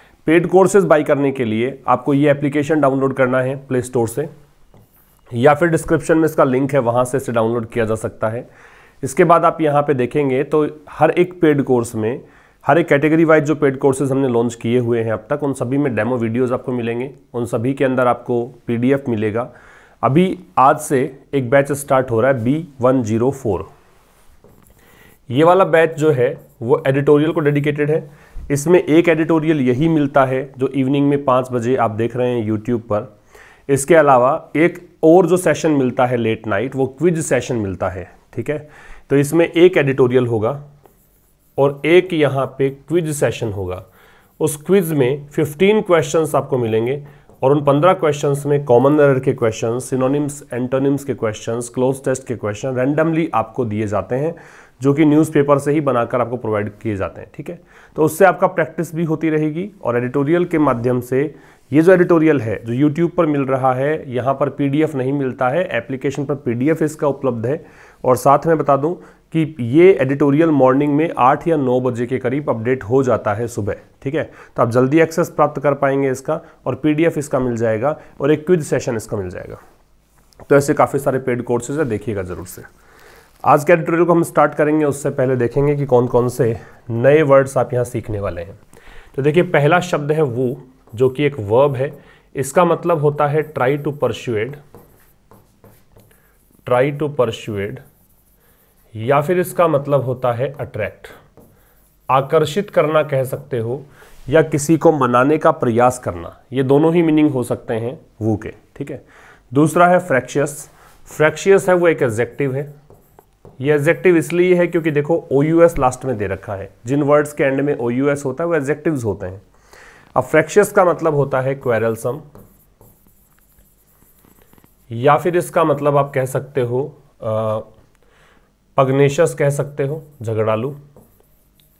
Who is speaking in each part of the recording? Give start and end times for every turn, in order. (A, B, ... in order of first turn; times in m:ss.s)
0:00.3-0:04.3 A
0:05.4-0:08.5 A
0:09.0-0:19.5 A
0:20.0-0:23.7 A
0:25.3-0:33.1 A
0:33.7-0:40.6 A
0:41.6-0:43.8 A
0:44.4-1:19.6 A
1:20.5-1:22.7 A
1:23.4-1:28.6 A
1:29.2-1:34.6 A
1:36.7-1:37.8 A
1:39.0-1:41.1 A
1:42.1-1:52.7 A
1:53.6-1:59.4 A
2:00.2-2:02.2 A
2:04.9-2:07.7 A
2:08.8-2:10.8 A